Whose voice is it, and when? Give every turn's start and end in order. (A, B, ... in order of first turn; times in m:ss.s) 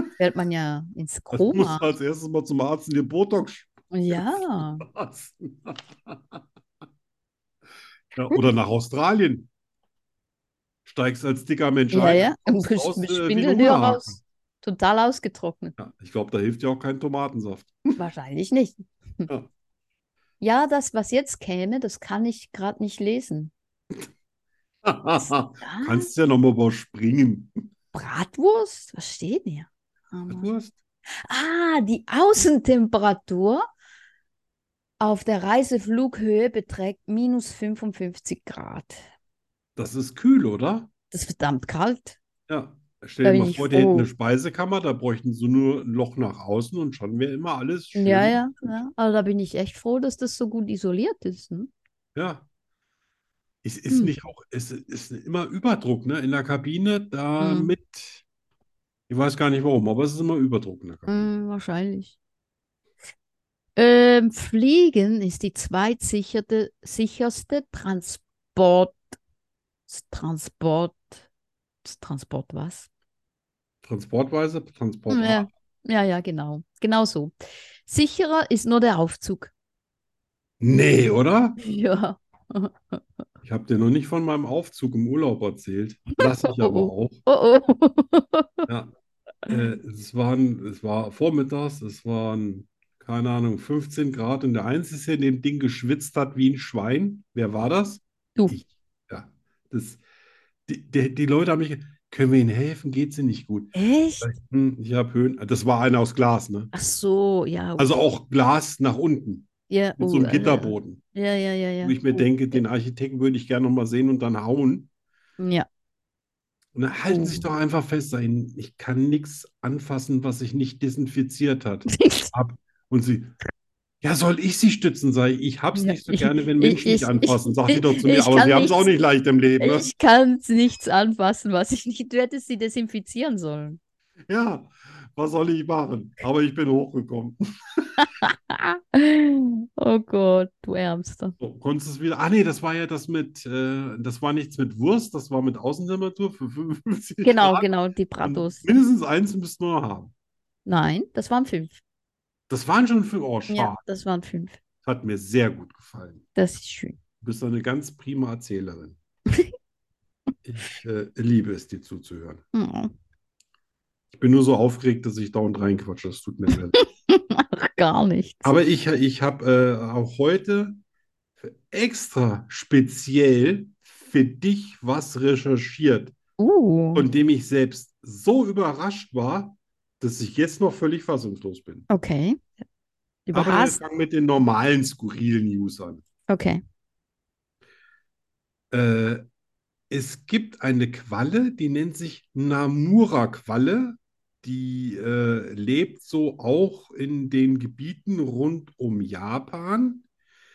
0:00.2-0:01.9 A
0:01.3-0:06.4 B
0:03.9-0:04.8 A
0:08.1-0:09.5 B
0:10.8-0:14.2 B
0:11.9-0:15.8 A
0:15.8-0:18.0 B
0:18.0-0:19.3 A
0:20.4-0:23.5 A
0:24.8-0:27.6 B
0:25.6-0:26.1 A
0:27.9-0:30.5 A
0:30.3-0:30.8 B
0:31.3-0:33.6 A
0:35.0-0:39.0 A
0:39.8-0:40.9 B
0:41.1-0:42.2 A
0:42.5-0:48.4 B
0:43.2-0:44.1 A
0:47.9-0:51.7 A
0:52.1-0:52.4 B
0:53.6-0:58.2 B
0:57.4-0:57.7 A
0:59.1-1:01.3 B
1:01.1-1:02.2 A
1:03.8-1:09.0 A
1:09.9-1:11.2 A
1:11.8-1:12.9 A
1:13.8-1:15.5 B
1:15.1-1:19.5 A
1:20.6-1:21.6 B
1:21.6-1:23.0 A
1:23.4-1:27.2 B
1:26.2-1:28.6 A
1:28.7-1:28.9 B
1:29.5-1:40.0 B
1:40.7-1:46.7 B
1:43.7-1:44.3 A
1:46.7-1:47.9 A
1:47.8-1:51.0 B
1:49.7-1:52.6 A
1:51.8-1:54.9 B
1:55.4-1:55.7 A
1:56.7-2:03.3 B
1:57.1-1:57.4 A
2:01.9-2:02.3 A
2:04.0-2:09.9 B
2:05.7-2:08.9 A
2:09.6-2:13.8 A
2:14.3-2:17.9 B
2:18.0-2:21.4 A
2:21.4-2:27.7 B
2:27.2-2:28.7 A
2:28.2-2:30.1 B
2:30.6-2:31.8 A
2:32.5-2:33.8 B
2:33.5-2:34.6 A
2:34.8-2:36.2 B
2:36.4-2:37.0 A
2:37.2-2:39.0 B
2:40.4-2:42.4 B
2:42.5-2:42.9 A
2:44.1-2:46.8 B
2:46.7-2:48.5 A
2:48.4-2:50.8 B
2:51.4-2:56.1 B
2:56.4-2:57.0 A
2:56.9-3:01.9 B
3:01.9-3:02.4 A
3:03.3-3:03.8 A
3:03.3-3:06.0 B
3:06.3-3:06.6 A
3:08.7-3:09.2 B
3:09.9-3:20.0 B